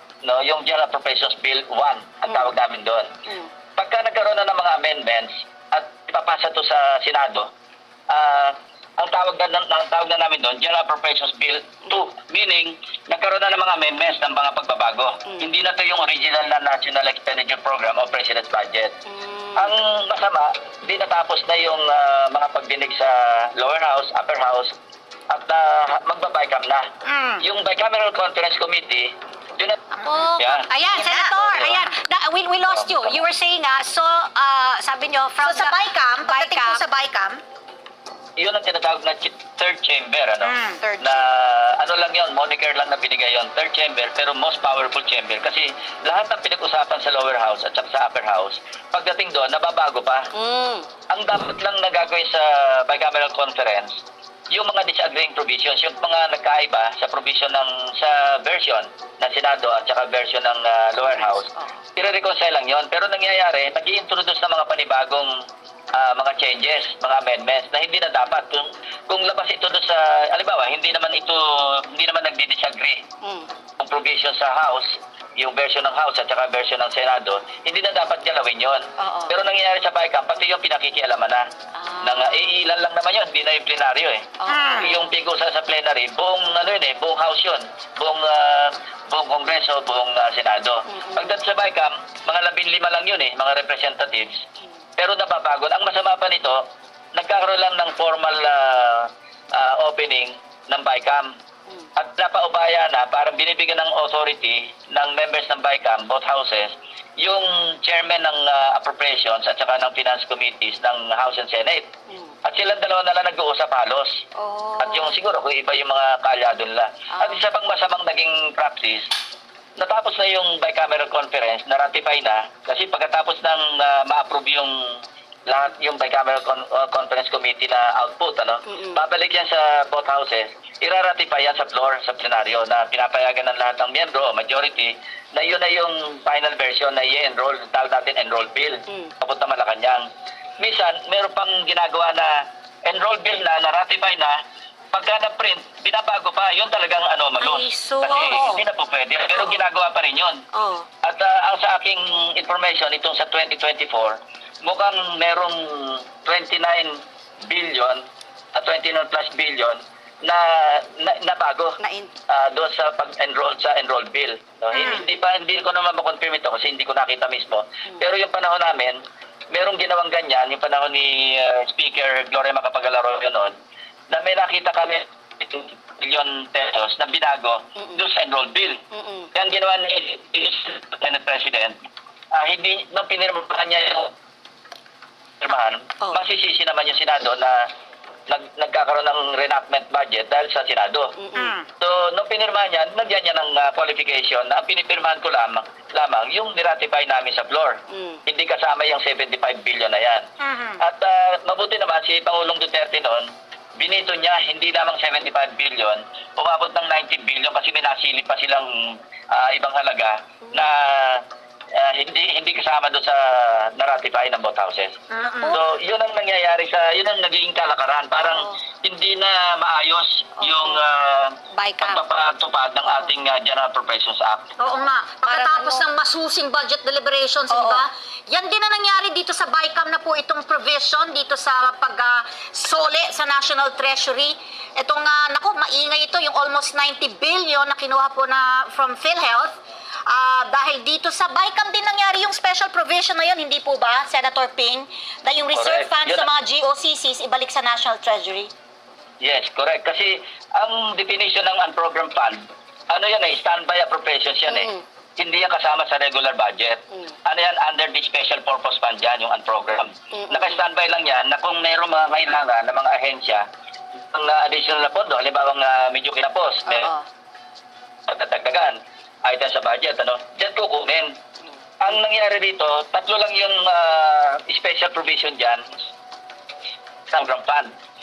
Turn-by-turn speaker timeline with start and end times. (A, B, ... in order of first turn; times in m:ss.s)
0:00.2-0:03.1 A
0:03.8-0:07.5 A
0:08.1-0:19.0 A
0:19.0-0:19.7 B
0:19.5-0:24.7 A
0:25.3-0:26.9 A
0:27.0-0:27.4 C
0:27.4-0:29.8 A
0:30.0-0:36.8 B
0:30.4-0:30.7 A
0:30.8-0:31.4 C
0:31.4-0:31.9 A
0:32.7-0:33.2 A
0:35.4-0:37.4 C
0:38.4-0:50.3 A
0:40.4-0:40.8 C
0:40.8-0:41.2 B
0:50.3-0:50.9 B
0:51.1-0:54.0 A
0:54.5-1:05.4 A
1:01.5-1:01.8 B
1:05.9-1:13.0 A
1:13.2-1:13.5 B
1:13.8-1:21.4 A
1:19.0-1:19.3 B
1:21.7-1:22.5 B
1:22.0-1:34.4 A
1:24.4-1:25.0 B
1:24.5-1:25.0 C
1:30.9-1:31.4 B
1:35.0-1:41.3 A
1:42.0-1:51.9 A
1:52.1-1:52.4 B
1:52.4-1:54.2 A
1:54.3-1:55.2 B
1:54.8-1:59.1 A
1:57.1-1:57.4 B
1:59.8-2:20.1 A
2:08.7-2:09.0 B
2:20.6-2:24.4 A
2:24.9-2:30.4 A
2:27.4-2:28.6 B
2:30.5-2:30.9 B
2:31.0-2:41.8 A
2:41.8-2:42.1 B
2:42.3-2:53.5 A
2:54.1-2:58.8 A
2:58.9-2:59.3 B
2:59.3-3:01.8 A
3:02.3-3:04.1 A
3:05.4-3:07.7 A
3:08.3-3:11.1 A
3:11.2-3:11.5 B
3:11.3-3:11.7 C
3:11.8-3:20.3 A
3:17.9-3:18.2 B
3:20.4-3:20.8 C
3:20.8-3:34.9 A
3:30.5-3:30.7 B
3:35.1-3:35.6 C
3:35.5-3:44.5 A
3:38.2-3:38.6 B
3:40.4-3:40.8 B
3:41.5-3:42.0 B
3:44.6-4:08.5 C
3:45.2-3:45.8 B
3:47.5-3:47.8 B
4:05.5-4:06.3 A
4:09.2-4:23.4 A
4:14.5-4:14.8 B
4:20.1-4:20.6 B
4:24.1-4:26.9 A
4:26.6-4:27.0 B
4:28.1-4:31.1 A
4:31.8-4:35.7 A
4:37.1-4:37.7 A